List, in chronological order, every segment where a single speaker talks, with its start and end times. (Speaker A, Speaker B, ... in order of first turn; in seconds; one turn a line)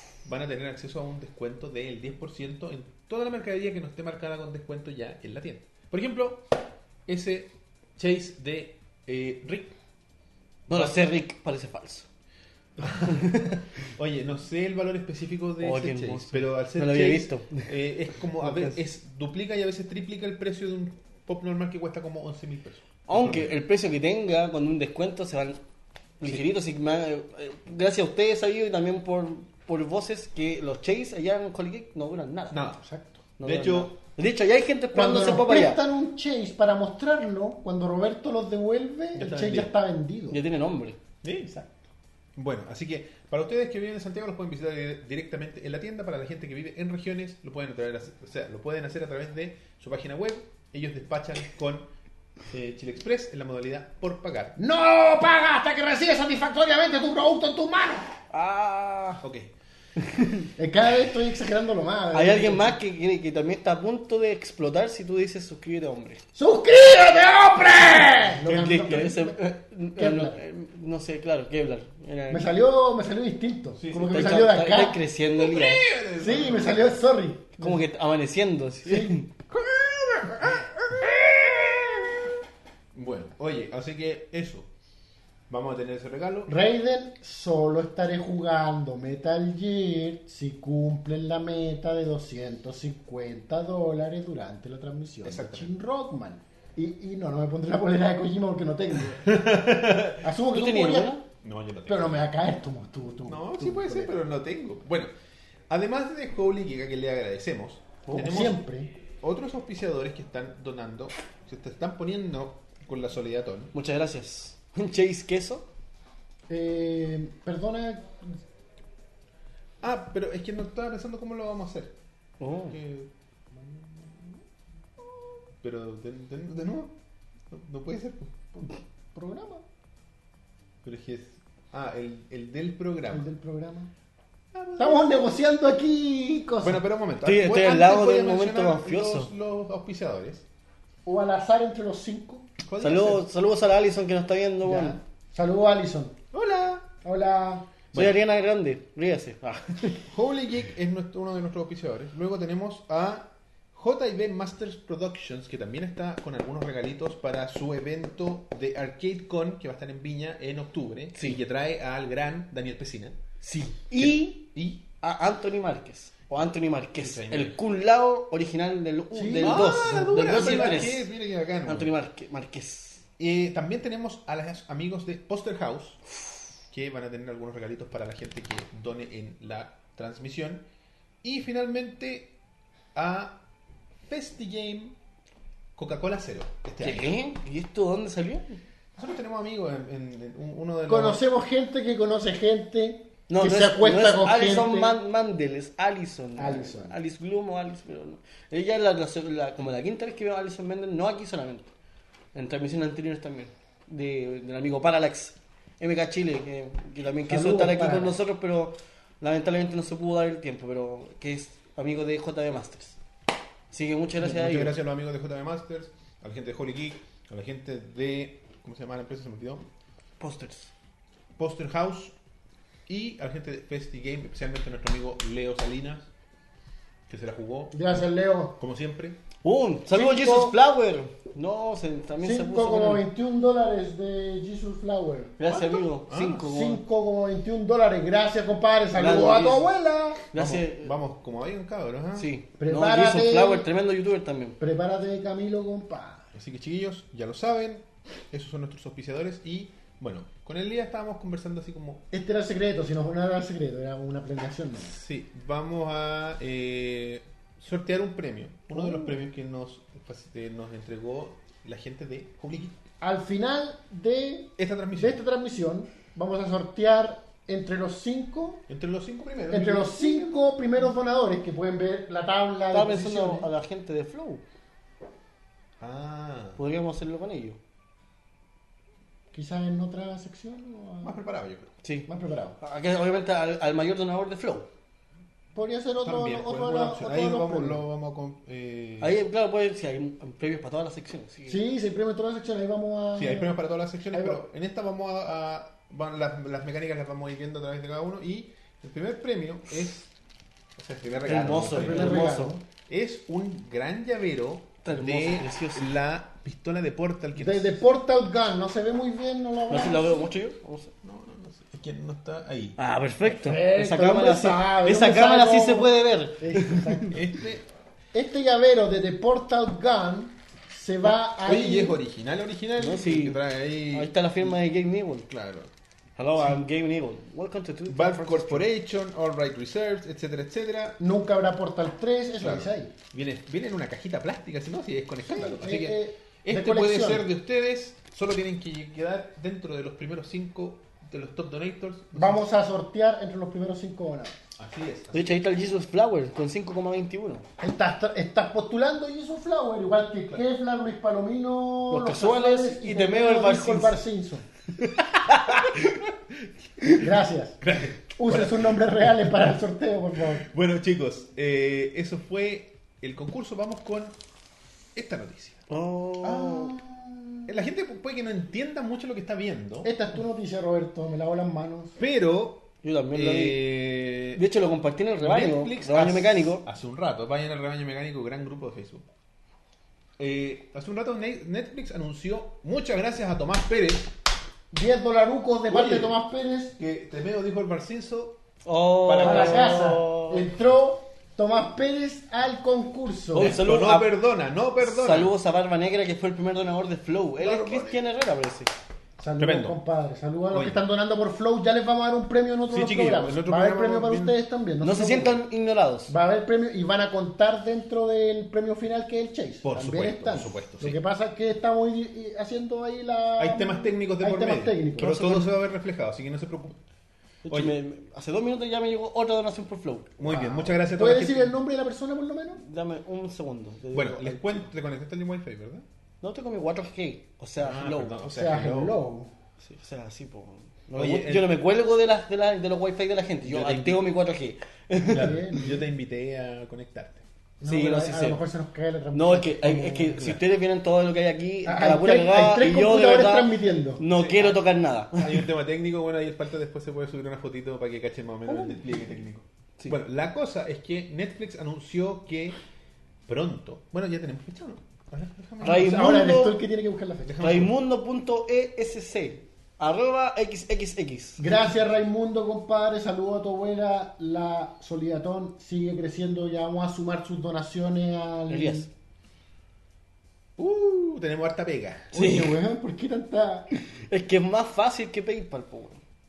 Speaker A: 0.2-6.5
Speaker A: 7.1-9.8
Speaker B: 10.7-12.1
Speaker A: 12.8-23.5
Speaker B: 12.9-13.6
Speaker B: 15.6-17.7
Speaker B: 18.4-18.7
Speaker B: 23.1-25.6
Speaker B: 26.2-32.6
Speaker A: 32.5-33.9
Speaker B: 33.4-35.8
Speaker C: 34.9-40.4
Speaker A: 39.1-39.7
Speaker B: 40.3-41.0
Speaker A: 41.2-41.5
Speaker C: 41.5-41.8
Speaker A: 42.4-51.9
Speaker A: 52.5-54.6
Speaker C: 54.6-58.1
Speaker B: 58.3-59.2
Speaker A: 59.2-59.5
Speaker B: 60.0-60.5
Speaker C: 60.6-62.8
Speaker B: 62.1-66.2
Speaker C: 66.3-69.4
Speaker B: 68.4-72.5
Speaker C: 70.0-70.4
Speaker C: 72.3-75.0
Speaker A: 73.8-74.4
Speaker B: 74.0-75.9
Speaker A: 75.4-76.9
Speaker C: 76.2-77.8
Speaker B: 77.6-79.3
Speaker C: 78.9-79.2
Speaker A: 79.5-82.1
Speaker A: 82.9-84.7
Speaker A: 85.5-86.5
Speaker C: 86.5-99.6
Speaker A: 95.2-95.7
Speaker A: 99.2-100.2
Speaker C: 100.2-101.2
Speaker B: 100.5-101.2
Speaker A: 101.4-102.3
Speaker C: 101.9-104.2
Speaker A: 103.3-105.1
Speaker A: 105.7-108.6
Speaker C: 108.1-108.9
Speaker A: 109.2-113.7
Speaker B: 113.7-115.7
Speaker C: 116.5-118.4
Speaker A: 119.8-121.9
Speaker B: 122.4-122.8
Speaker A: 122.7-123.1
Speaker C: 123.6-124.4
Speaker A: 125.6-126.9
Speaker A: 127.5-128.4
Speaker C: 128.6-129.6
Speaker A: 130.8-133.3
Speaker C: 133.1-133.9
Speaker A: 134.5-135.2
Speaker C: 134.8-136.8
Speaker A: 136.6-140.4
Speaker B: 137.2-139.3
Speaker C: 141.1-142.5
Speaker A: 142.7-143.2
Speaker B: 142.8-145.0
Speaker C: 144.6-146.2
Speaker A: 146.3-146.9
Speaker C: 147.0-147.7
Speaker B: 147.9-150.1
Speaker A: 150.1-163.2
Speaker B: 163.4-164.4
Speaker A: 163.9-164.8
Speaker B: 165.0-171.1
Speaker A: 167.0-167.6
Speaker C: 169.1-170.9
Speaker A: 169.4-171.9
Speaker B: 171.7-173.0
Speaker A: 173.2-176.0
Speaker A: 176.7-180.6
Speaker A: 181.2-182.3
Speaker A: 182.9-183.4
Speaker A: 184.1-184.9
Speaker A: 185.8-187.2
Speaker B: 186.8-188.6
Speaker A: 189.0-191.2
Speaker C: 190.9-195.0
Speaker B: 193.3-201.7
Speaker C: 196.4-196.9
Speaker B: 202.3-213.0
Speaker C: 207.2-208.2
Speaker B: 213.7-214.7
Speaker A: 214.2-219.7
Speaker B: 220.2-220.7
Speaker A: 221.4-222.2
Speaker A: 222.9-226.1
Speaker A: 227.1-227.9
Speaker C: 227.7-228.6
Speaker A: 228.6-229.2
Speaker B: 229.4-233.1
Speaker C: 229.9-230.6
Speaker C: 232.2-235.4
Speaker B: 235.4-236.8
Speaker A: 235.5-236.4
Speaker C: 236.4-240.2
Speaker B: 238.9-239.6
Speaker B: 240.3-240.9
Speaker A: 240.3-242.3
Speaker B: 242.2-244.6
Speaker C: 242.6-243.7
Speaker C: 244.6-246.3
Speaker A: 246.3-252.1
Speaker C: 252.1-254.9
Speaker A: 254.8-262.8
Speaker C: 263.0-268.6
Speaker A: 264.6-265.2
Speaker A: 268.7-270.4
Speaker C: 269.5-273.5
Speaker B: 272.7-274.4
Speaker A: 275.8-276.6
Speaker B: 276.6-277.6
Speaker C: 279.3-281.2
Speaker A: 281.0-281.7
Speaker B: 281.8-282.1
Speaker C: 282.1-282.6
Speaker B: 282.6-284.7
Speaker C: 285.6-287.8
Speaker A: 286.0-289.2
Speaker B: 289.0-291.6
Speaker C: 291.5-293.6
Speaker A: 293.1-300.1
Speaker C: 294.1-294.4
Speaker A: 300.8-302.3
Speaker B: 301.2-302.6
Speaker C: 301.7-302.6
Speaker A: 302.9-307.8
Speaker B: 304.8-305.9
Speaker C: 307.4-310.3
Speaker B: 309.7-310.9
Speaker A: 311.0-312.8
Speaker B: 312.8-317.2
Speaker C: 313.4-317.2
Speaker A: 317.1-317.6
Speaker C: 318.1-322.0
Speaker A: 321.0-324.5
Speaker B: 322.8-323.4
Speaker B: 323.9-325.3
Speaker A: 325.3-325.7
Speaker B: 326.2-328.7
Speaker A: 327.9-331.0
Speaker C: 331.0-332.9
Speaker A: 332.4-342.4
Speaker C: 335.2-337.2
Speaker C: 342.1-344.4
Speaker A: 344.6-345.4
Speaker B: 345.1-347.4
Speaker C: 347.6-354.4
Speaker B: 351.9-354.0
Speaker B: 354.9-356.0
Speaker A: 355.6-356.9
Speaker C: 357.0-357.6
Speaker A: 357.6-359.1
Speaker C: 358.1-360.4
Speaker A: 360.4-364.1
Speaker A: 364.9-365.6
Speaker B: 365.7-366.7
Speaker A: 366.2-366.8
Speaker C: 366.8-367.5
Speaker A: 367.4-369.9
Speaker C: 369.8-372.0
Speaker A: 372.0-374.4
Speaker B: 372.8-373.6
Speaker B: 374.4-376.6
Speaker A: 375.2-379.1
Speaker A: 380.2-384.1
Speaker C: 384.7-386.8
Speaker A: 385.7-386.1
Speaker A: 386.8-388.4
Speaker B: 388.6-390.4
Speaker A: 389.1-389.8
Speaker C: 389.2-393.6
Speaker B: 393.3-394.1
Speaker A: 393.4-395.3
Speaker B: 394.8-398.7
Speaker A: 397.4-398.0
Speaker C: 399.2-405.4
Speaker A: 399.4-399.8
Speaker A: 400.5-400.8
Speaker A: 402.7-404.4
Speaker B: 404.8-406.1
Speaker C: 406.1-415.5
Speaker A: 409.6-411.0
Speaker A: 413.4-416.8
Speaker B: 417.4-420.2
Speaker A: 417.5-417.7
Speaker A: 420.2-421.6
Speaker C: 420.3-422.6
Speaker B: 422.6-424.6
Speaker A: 423.9-425.9
Speaker B: 426.2-428.2
Speaker A: 427.6-429.0
Speaker C: 428.2-429.3
Speaker B: 429.6-435.4
Speaker A: 430.9-431.5
Speaker A: 433.4-434.0
Speaker A: 435.1-437.2
Speaker C: 435.1-435.8
Speaker C: 437.6-440.3
Speaker B: 437.6-438.4
Speaker B: 439.1-445.4
Speaker C: 441.6-444.0
Speaker A: 444.1-452.6
Speaker B: 448.5-448.9
Speaker A: 453.3-456.5
Speaker B: 455.6-456.5
Speaker C: 455.6-457.4
Speaker A: 457.2-457.7
Speaker B: 457.4-461.5
Speaker C: 461.4-468.9
Speaker B: 468.5-468.9
Speaker A: 470.6-472.3
Speaker B: 472.1-472.5
Speaker C: 472.1-473.7
Speaker B: 473.7-476.0